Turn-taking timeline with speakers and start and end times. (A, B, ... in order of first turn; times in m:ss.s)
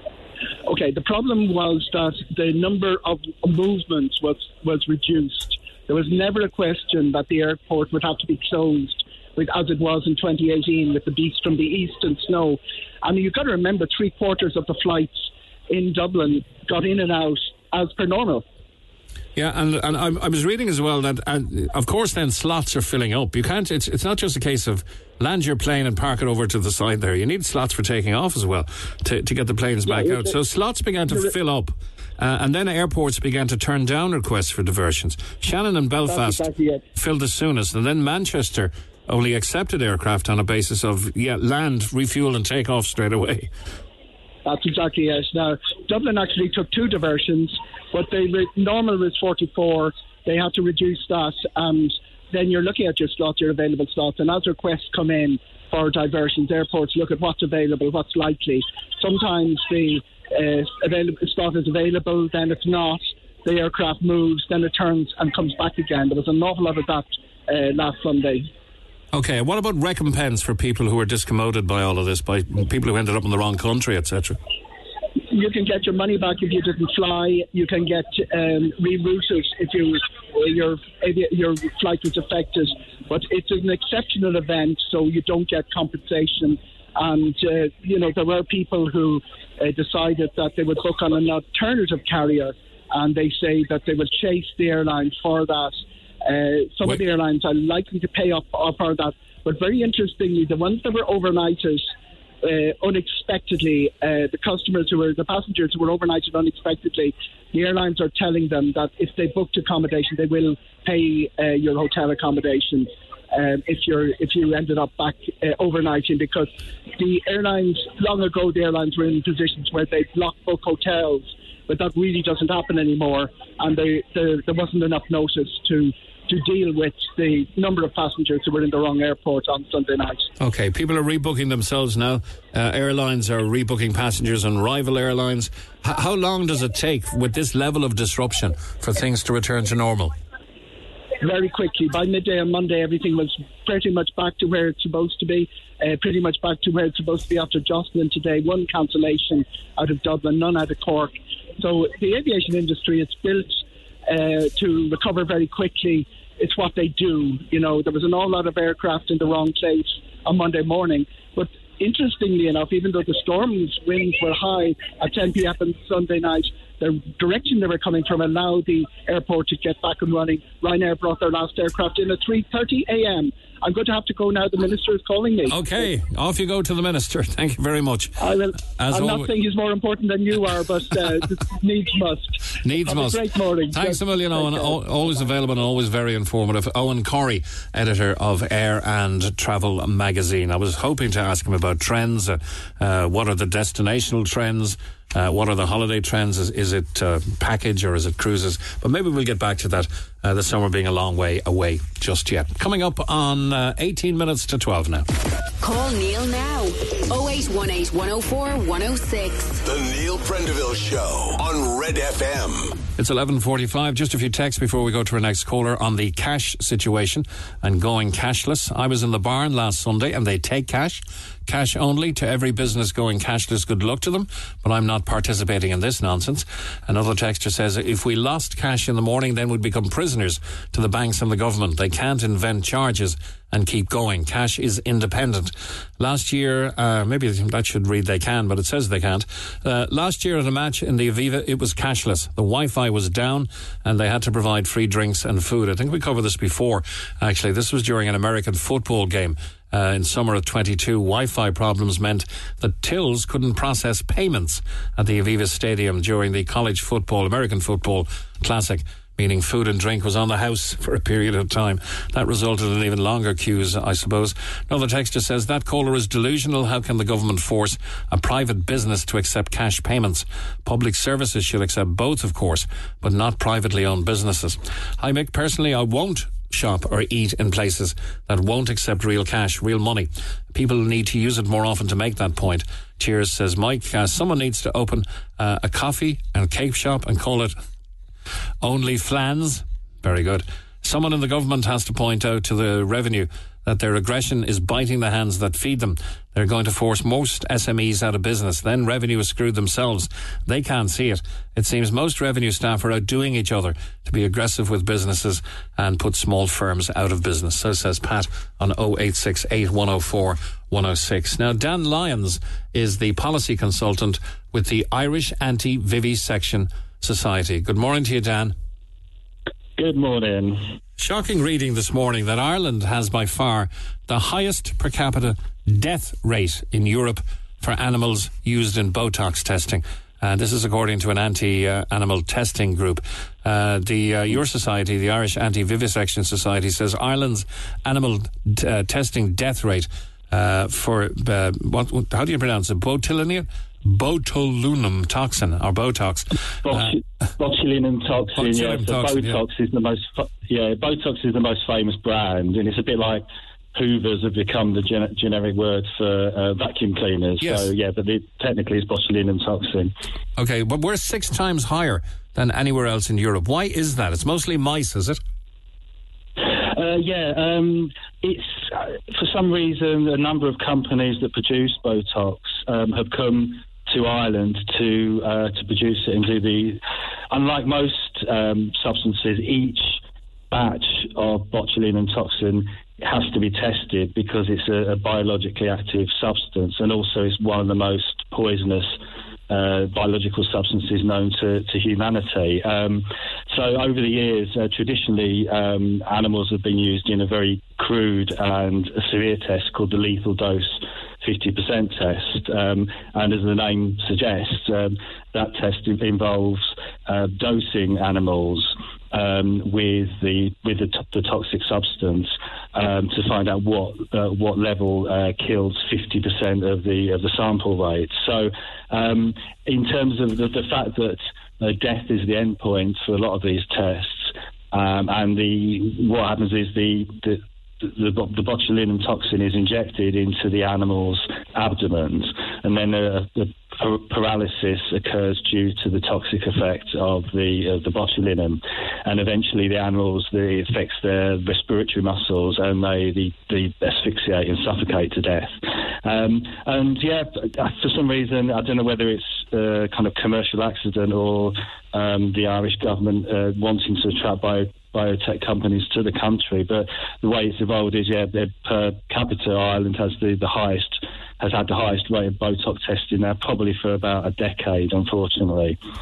0:00.7-0:18.4 A
0:19.4-0:43.5 B
0:29.9-0:30.4 A
0:31.1-0:31.4 A
0:36.1-0:36.8 A
0:44.4-1:08.5 A
1:09.1-1:14.4 B
1:15.3-1:41.9 A
1:42.4-2:10.3 A
2:10.4-2:20.1 B
2:21.2-2:55.9 A
2:55.5-2:58.2 B
2:58.2-3:05.2 A
2:58.8-2:59.3 B
3:02.6-3:25.1 B
3:25.6-3:29.6 C
3:29.6-3:32.8 D
3:33.0-4:47.6 B
4:48.6-5:18.5 B
5:19.8-5:20.8 E
5:21.0-5:47.0 B
5:46.6-5:59.9 E
5:48.4-5:49.4 B
5:57.4-5:57.7 B
6:00.4-6:05.2 B
6:06.4-6:20.0 E
6:20.5-6:29.0 E
6:29.5-7:45.8 E